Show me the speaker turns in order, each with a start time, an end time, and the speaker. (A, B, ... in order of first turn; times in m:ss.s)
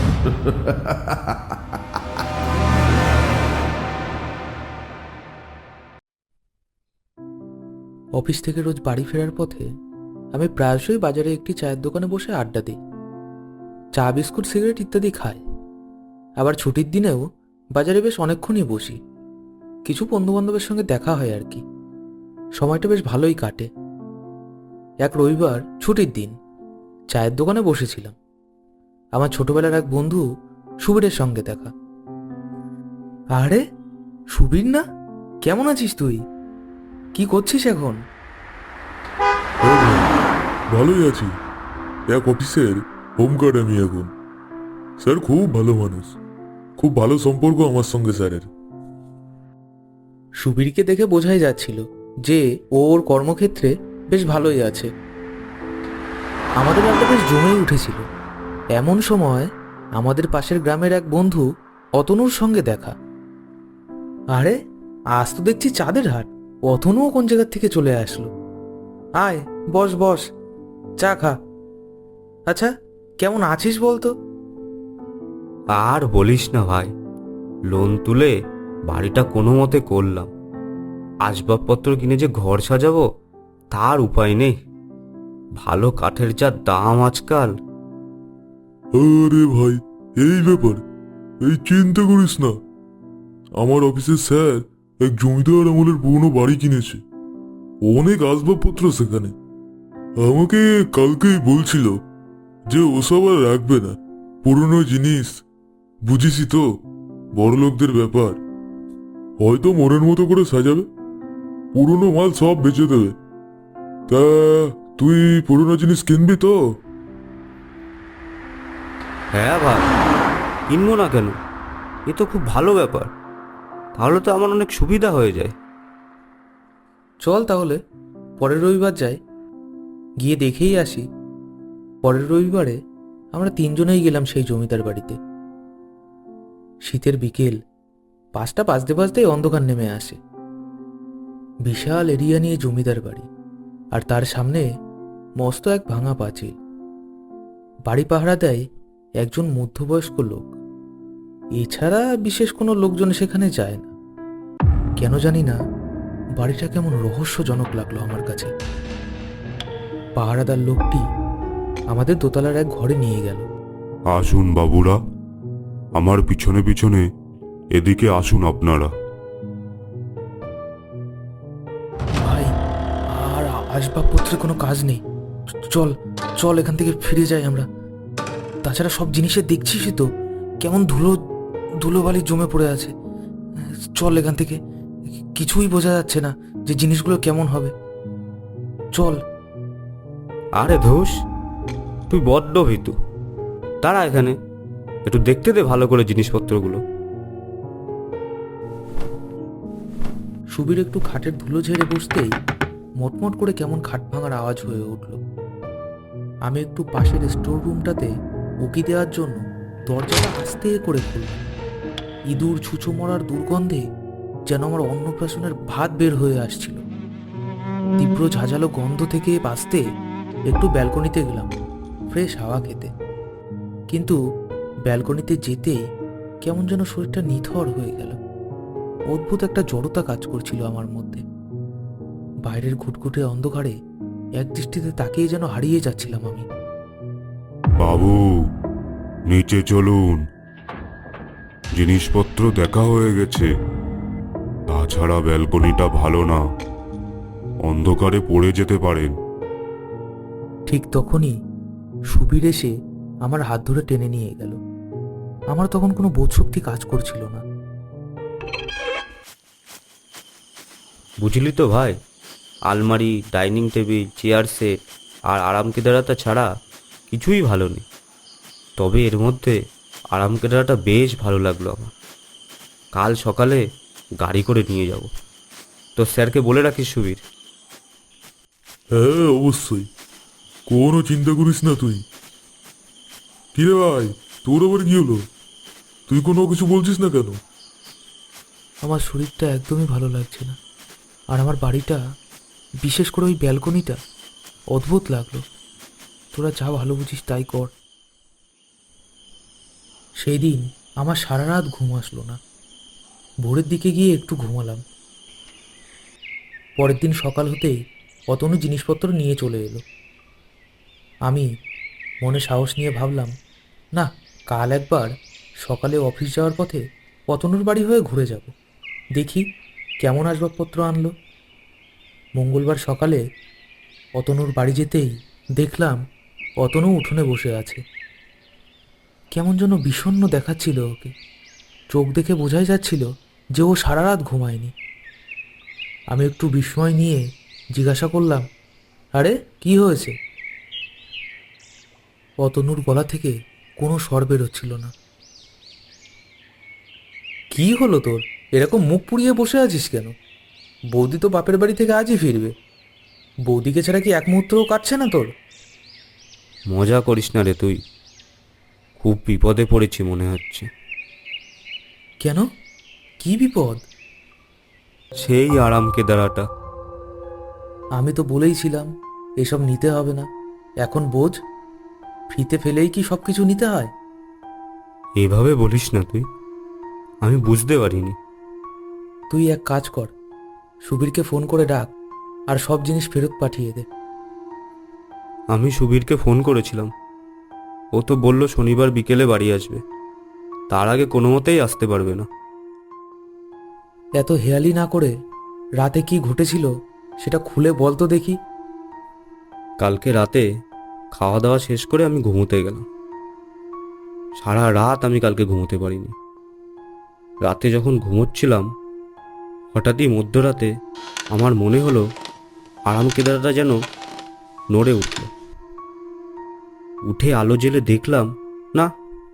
0:08.2-0:09.7 A
0:10.3-0:12.8 A
0:14.0-0:15.4 A
0:16.4-0:17.2 A
0:17.8-0:19.0 A
0:19.8-0:21.6 A
0:22.6-0:23.7 A
0:25.0-0:26.3 A
0:27.1-0:28.1 A
0:29.2-0:30.2 A
0:30.8-0:31.7 A
0:33.4-0:33.6 A
0:34.3-0:34.8 A
0:35.4-0:36.2 A
0:37.2-0:38.0 A
0:39.6-0:40.1 B
0:40.7-0:41.3 B
0:42.1-0:44.1 B
0:45.0-0:46.2 B
0:46.8-0:48.5 B
0:50.4-0:54.9 A
0:56.6-0:58.0 A
0:58.8-1:01.4 A
1:02.0-1:02.9 A
1:05.2-1:08.3 A
1:09.2-1:10.2 A
1:11.0-1:11.4 A
1:13.2-1:14.1 A
1:15.8-1:16.9 C
1:17.7-1:18.3 C
1:18.9-1:20.3 C
1:21.2-1:23.0 C
1:23.7-1:24.5 C
1:25.6-1:27.5 C
1:29.0-1:30.8 B
1:31.4-1:32.6 B
1:33.6-1:37.0 B
1:37.9-1:39.4 B
1:40.2-1:42.0 B
1:42.7-1:45.4 B
1:46.0-1:46.8 B
1:47.3-1:48.4 B
1:49.4-1:50.9 B
1:51.7-1:53.2 B
1:54.1-1:56.6 B
1:59.3-1:59.9 C
2:00.7-2:01.4 C
2:02.1-2:03.1 C
2:04.0-2:05.5 C
2:07.2-2:07.8 A
2:08.4-2:09.2 A
2:10.2-2:11.0 A
2:12.0-2:12.8 A
2:13.3-2:15.2 A
2:16.8-2:17.6 A
2:18.4-2:20.2 A
2:21.6-2:23.3 A
2:23.9-2:24.6 A
2:25.4-2:26.5 A
2:27.9-2:28.6 A
2:29.2-2:30.5 A
2:31.6-2:33.9 A
2:35.0-2:35.6 A
2:36.4-2:38.5 A
2:40.2-2:41.0 A
2:41.9-2:43.5 A
2:44.1-2:45.0 D
2:46.0-2:47.1 D
2:47.7-2:48.9 D
2:52.2-2:52.5 A
2:53.1-2:55.0 A
2:55.7-2:57.7 A
2:58.6-3:00.1 A
3:00.6-3:01.2 A
3:01.8-3:02.9 A
3:03.6-3:04.6 A
3:05.2-3:07.7 A
3:10.6-3:11.1 C
3:12.1-3:13.0 C
3:13.8-3:14.4 C
3:15.0-3:16.8 C
3:20.5-3:22.3 A
3:23.0-3:25.2 A
3:26.5-3:28.1 A
3:28.6-3:31.4 A
3:32.3-3:33.8 A
3:34.5-3:36.8 A
3:38.0-3:39.8 A
3:40.5-3:41.6 A
3:42.1-3:42.9 A
3:43.9-3:44.2 A
3:44.9-3:45.8 A
3:46.4-3:48.2 A
3:49.1-3:51.2 A
3:52.5-3:53.7 A
3:54.4-3:56.4 A
3:57.8-3:58.4 D
3:59.3-4:00.3 D
4:01.8-4:03.5 D
4:04.7-4:06.5 D
4:07.6-4:09.2 D
4:10.7-4:11.3 A
4:12.1-4:12.7 A
4:13.2-4:14.6 A
4:15.5-4:17.4 A
4:21.2-4:22.0 C
4:22.7-4:24.7 C
4:25.3-4:26.5 C
4:27.1-4:27.8 C
4:28.8-4:29.6 C
4:30.1-4:31.9 C
4:32.9-4:33.6 C
4:34.2-4:35.1 C
4:36.0-4:37.2 C
4:38.9-4:39.9 B
4:40.7-4:42.0 B
4:43.5-4:45.3 B
4:46.1-4:47.4 B
4:48.8-4:50.6 A
4:51.3-4:52.0 A
4:52.8-4:54.0 A
4:54.7-4:55.4 A
4:56.3-4:57.7 A
5:00.2-5:02.4 A
5:03.4-5:04.8 A
5:06.8-5:07.8 A
5:08.3-5:09.8 A
5:12.2-5:13.3 A
5:14.0-5:15.1 A
5:15.6-5:18.5 A
5:19.2-5:19.4 A
5:20.0-5:21.1 A
5:22.4-5:23.2 A
5:24.2-5:26.0 A
5:26.6-5:27.8 A
5:29.3-5:31.1 A
5:31.9-5:33.0 A
5:33.6-5:34.7 A
5:36.1-5:37.2 A
5:37.8-5:38.4 A
5:39.2-5:40.1 A
5:42.4-5:44.9 A
5:47.5-5:50.1 A
5:50.9-5:52.5 A
5:53.5-5:55.3 A
5:56.7-5:57.8 C
5:59.0-6:00.7 C
6:03.2-6:03.8 A
6:05.2-6:06.4 C
6:08.0-6:08.9 A
6:09.4-6:10.2 A
6:10.8-6:11.3 A
6:12.3-6:13.9 A
6:15.2-6:16.2 C
6:17.2-6:18.2 C
6:19.3-6:20.1 A
6:20.9-6:21.9 A
6:22.5-6:23.8 A
6:25.5-6:26.9 C
6:28.0-6:29.8 C
6:30.7-6:32.3 C
6:34.2-6:35.1 A
6:35.8-6:36.7 A
6:37.2-6:38.4 A
6:39.8-6:40.4 C
6:41.1-6:42.8 C
6:44.4-6:46.1 C
6:47.4-6:48.7 C
6:49.7-6:50.7 C
6:51.3-6:52.0 C
6:52.9-6:53.8 C
6:54.7-6:55.3 C
6:57.1-6:58.9 C